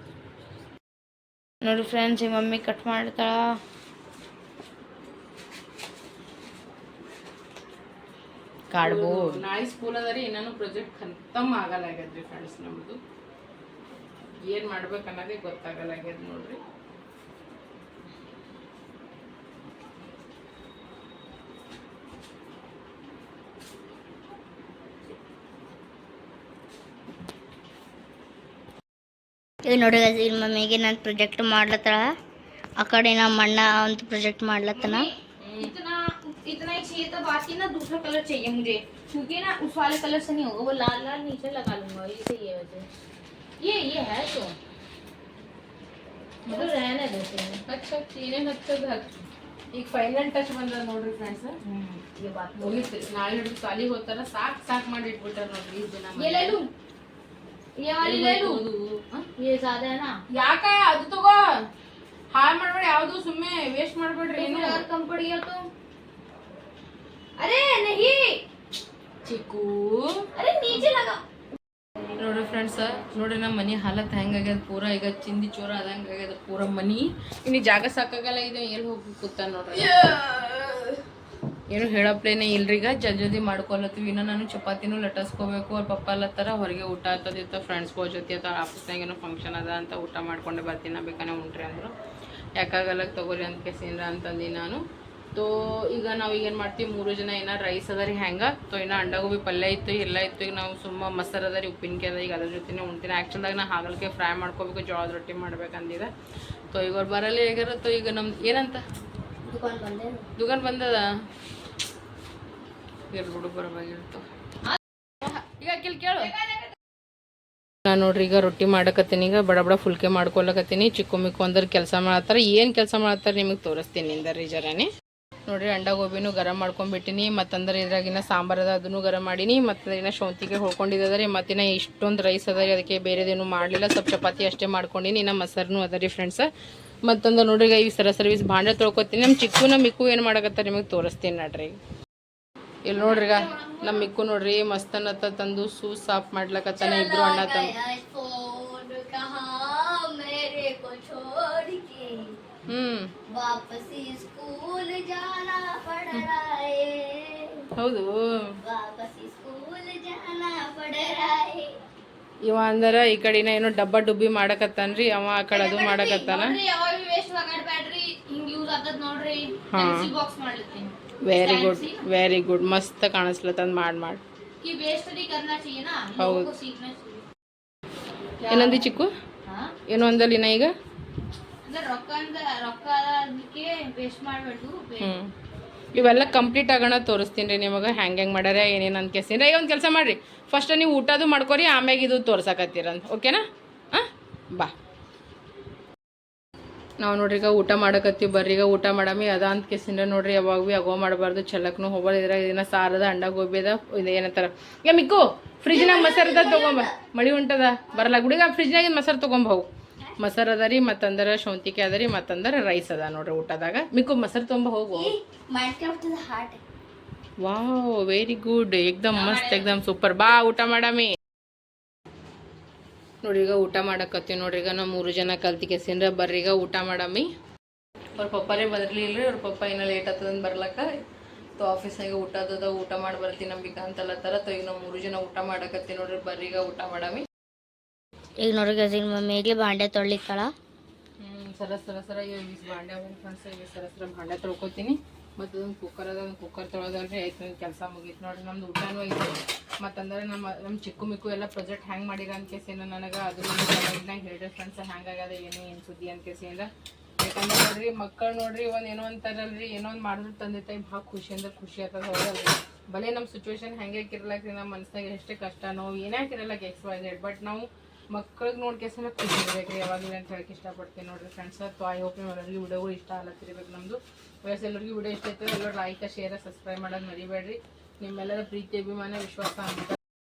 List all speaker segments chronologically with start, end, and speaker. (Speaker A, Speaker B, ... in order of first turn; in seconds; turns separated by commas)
Speaker A: 1.6-3.6, Speaker A: 8.7-9.4, Speaker B: 8.8-13.0, Speaker B: 14.4-16.6, Speaker C: 29.6-32.2, Speaker C: 32.8-35.1, Speaker A: 34.7-42.9, Speaker B: 35.4-35.7, Speaker A: 43.6-44.5, Speaker A: 46.5-47.6, Speaker B: 47.7-49.2, Speaker B: 49.7-51.6, Speaker A: 51.6-52.9, Speaker B: 52.6-56.6, Speaker A: 56.2-56.7, Speaker A: 57.8-58.6, Speaker B: 58.0-59.3, Speaker A: 59.4-60.2, Speaker B: 60.3-61.6, Speaker B: 62.3-64.8, Speaker A: 64.3-65.7, Speaker A: 67.4-68.4, Speaker B: 69.2-70.8, Speaker A: 70.3-71.2, Speaker B: 72.2-80.1, Speaker B: 81.7-91.9, Speaker B: 92.6-94.8, Speaker B: 95.3-106.1, Speaker B: 106.7-108.8, Speaker C: 109.4-110.3, Speaker B: 110.4-111.1, Speaker B: 113.1-114.3, Speaker A: 114.7-115.3, Speaker B: 115.3-116.3, Speaker B: 117.8-124.9, Speaker B: 125.5-136.5, Speaker B: 137.0-141.8, Speaker B: 142.8-147.7, Speaker A: 143.2-143.8, Speaker C: 146.8-152.4, Speaker B: 152.7-153.1, Speaker C: 153.3-157.6, Speaker B: 157.8-158.6, Speaker C: 158.6-161.8, Speaker B: 162.4-166.6, Speaker A: 165.5-172.0, Speaker B: 169.7-170.1, Speaker B: 171.2-174.2, Speaker A: 174.6-177.2, Speaker B: 176.2-176.5, Speaker A: 178.4-178.9, Speaker B: 178.5-179.1, Speaker A: 179.4-179.7, Speaker B: 179.9-180.7, Speaker A: 181.7-185.2, Speaker B: 185.0-185.3, Speaker B: 185.9-194.7, Speaker A: 186.0-186.3, Speaker B: 197.0-215.1, Speaker C: 205.7-207.0, Speaker C: 214.9-216.6, Speaker B: 217.4-221.2, Speaker A: 219.1-219.8, Speaker B: 223.2-227.3, Speaker B: 228.2-230.9, Speaker B: 231.6-237.3, Speaker C: 238.4-240.5, Speaker B: 241.2-256.7, Speaker B: 257.2-280.0